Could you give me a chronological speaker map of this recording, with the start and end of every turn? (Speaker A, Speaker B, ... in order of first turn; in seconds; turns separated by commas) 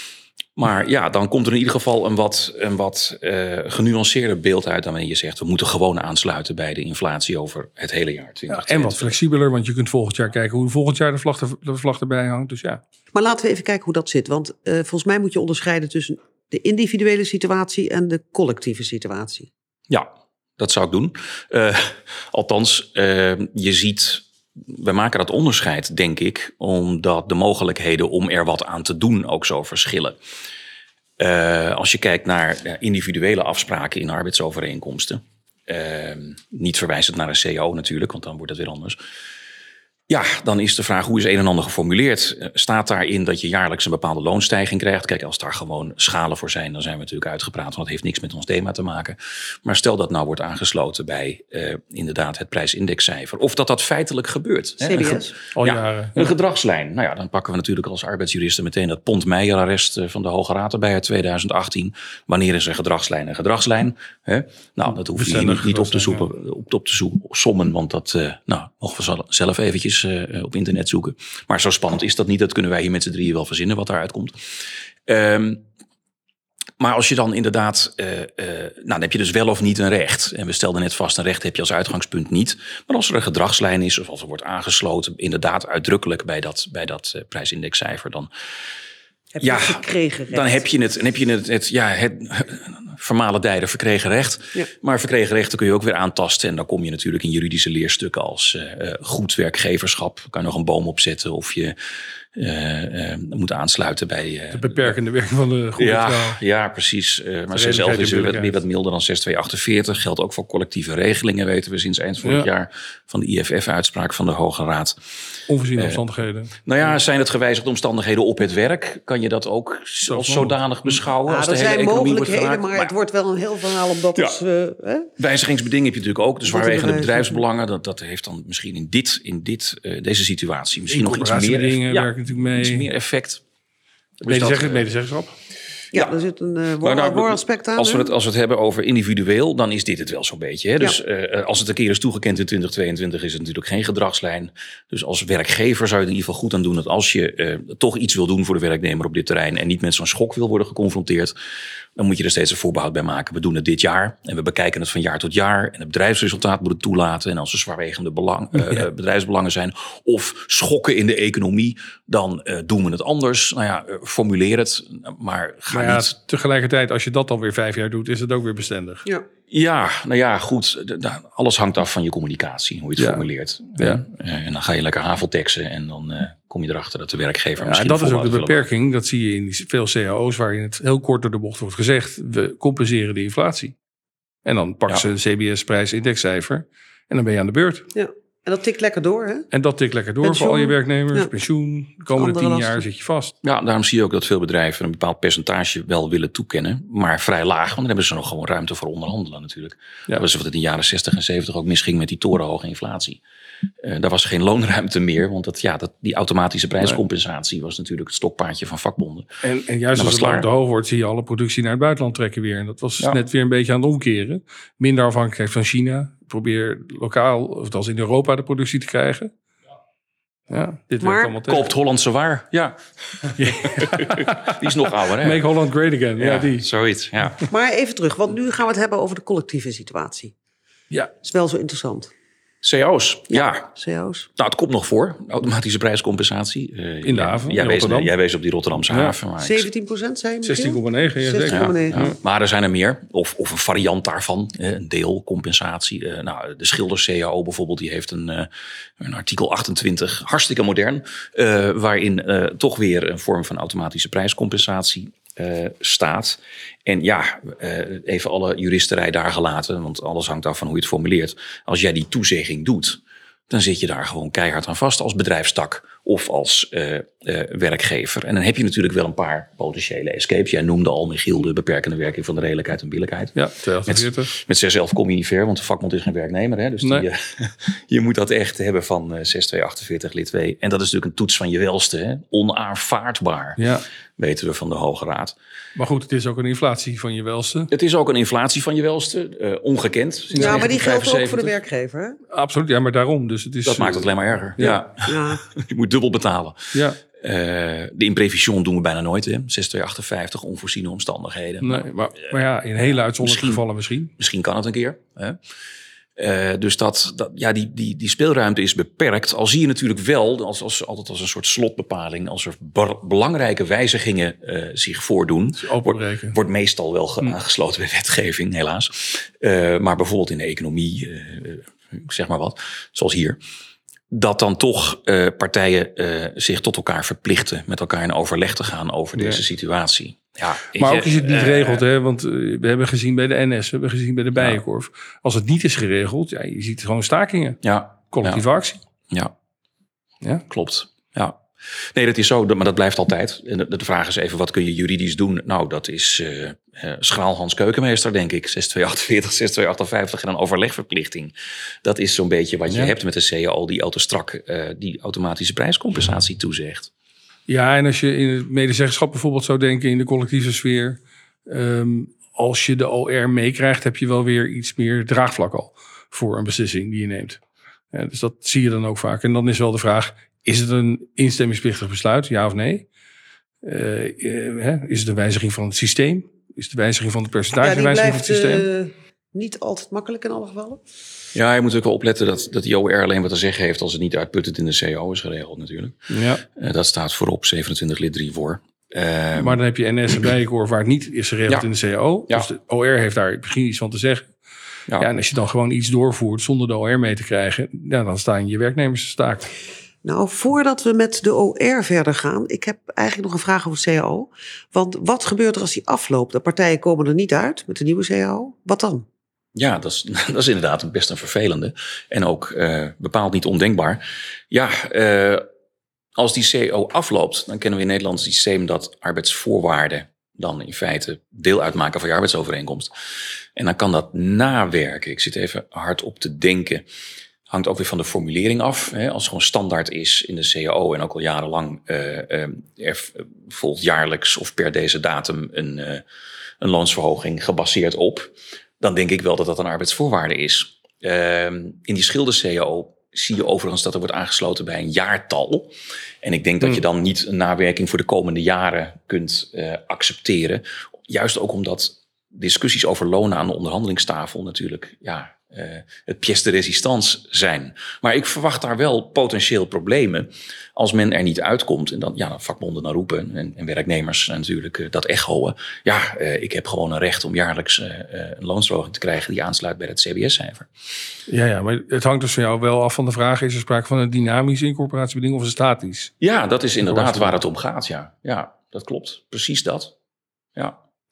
Speaker A: 0.6-9.1, Speaker B: 8.5-12.8, Speaker C: 13.1-19.5, Speaker A: 19.9-30.2, Speaker A: 31.2-39.0, Speaker A: 40.1-74.4, Speaker C: 54.8-55.4, Speaker B: 55.5-56.3, Speaker B: 65.0-66.2, Speaker A: 75.1-75.6, Speaker A: 76.8-88.3, Speaker C: 89.3-90.7, Speaker A: 89.4-101.8, Speaker A: 102.3-105.0, Speaker B: 104.5-106.4, Speaker A: 105.8-115.0, Speaker B: 107.5-108.6, Speaker B: 112.2-112.5, Speaker B: 115.5-116.5, Speaker A: 115.7-116.0, Speaker A: 116.6-122.9, Speaker B: 120.0-121.0, Speaker C: 121.2-125.1, Speaker A: 124.1-124.4, Speaker A: 125.2-133.4, Speaker C: 126.5-127.4, Speaker B: 130.9-132.9, Speaker A: 134.2-134.8, Speaker B: 134.2-135.3, Speaker C: 135.9-138.1, Speaker A: 136.8-151.3, Speaker A: 152.0-166.1, Speaker B: 158.6-158.8, Speaker B: 165.7-169.1, Speaker A: 169.5-178.6, Speaker B: 173.0-173.2, Speaker B: 173.8-174.0, Speaker B: 177.6-183.7, Speaker B: 184.4-187.9, Speaker C: 187.9-189.5, Speaker B: 189.5-193.3, Speaker C: 190.2-191.3, Speaker C: 192.1-192.8, Speaker A: 193.4-203.2, Speaker A: 203.8-209.3, Speaker B: 209.4-219.3, Speaker A: 209.9-210.5, Speaker B: 220.5-221.7, Speaker C: 221.0-221.4, Speaker A: 221.4-225.4, Speaker B: 223.4-224.6, Speaker B: 225.2-226.7, Speaker A: 226.2-227.4, Speaker C: 227.5-230.3, Speaker C: 231.2-232.1, Speaker A: 232.6-233.7, Speaker C: 233.3-234.3, Speaker A: 234.4-239.7, Speaker B: 237.0-238.1, Speaker B: 238.9-239.2, Speaker C: 239.4-242.1, Speaker B: 240.4-242.1, Speaker A: 241.5-248.5, Speaker A: 249.0-273.4, Speaker B: 273.3-274.3, Speaker A: 273.9-283.6, Speaker B: 276.8-277.1, Speaker B: 283.6-283.8, Speaker A: 284.2-285.3, Speaker B: 285.8-287.7, Speaker A: 287.7-291.5, Speaker B: 290.3-290.8, Speaker C: 290.4-292.2, Speaker B: 292.3-294.8, Speaker A: 293.6-302.3, Speaker C: 294.6-295.4, Speaker B: 296.7-297.0, Speaker B: 301.6-304.1, Speaker A: 302.9-303.6, Speaker A: 304.2-305.4, Speaker A: 306.2-323.4, Speaker B: 315.6-316.4, Speaker A: 324.1-331.8, Speaker B: 329.1-329.4, Speaker B: 330.8-338.8, Speaker A: 334.4-334.6, Speaker A: 337.6-338.4, Speaker A: 340.5-341.4, Speaker A: 341.9-356.9, Speaker B: 357.5-367.4, Speaker B: 367.9-372.9, Speaker B: 373.6-378.6, Speaker C: 377.6-380.8, Speaker A: 381.3-389.6, Speaker B: 386.1-386.4, Speaker B: 389.4-394.3, Speaker B: 395.0-399.5, Speaker C: 400.0-409.0, Speaker A: 409.5-415.4, Speaker A: 416.2-422.9, Speaker A: 423.6-426.8, Speaker A: 427.5-436.0, Speaker A: 436.6-470.7, Speaker B: 471.3-476.1, Speaker A: 476.2-479.9, Speaker B: 476.8-477.4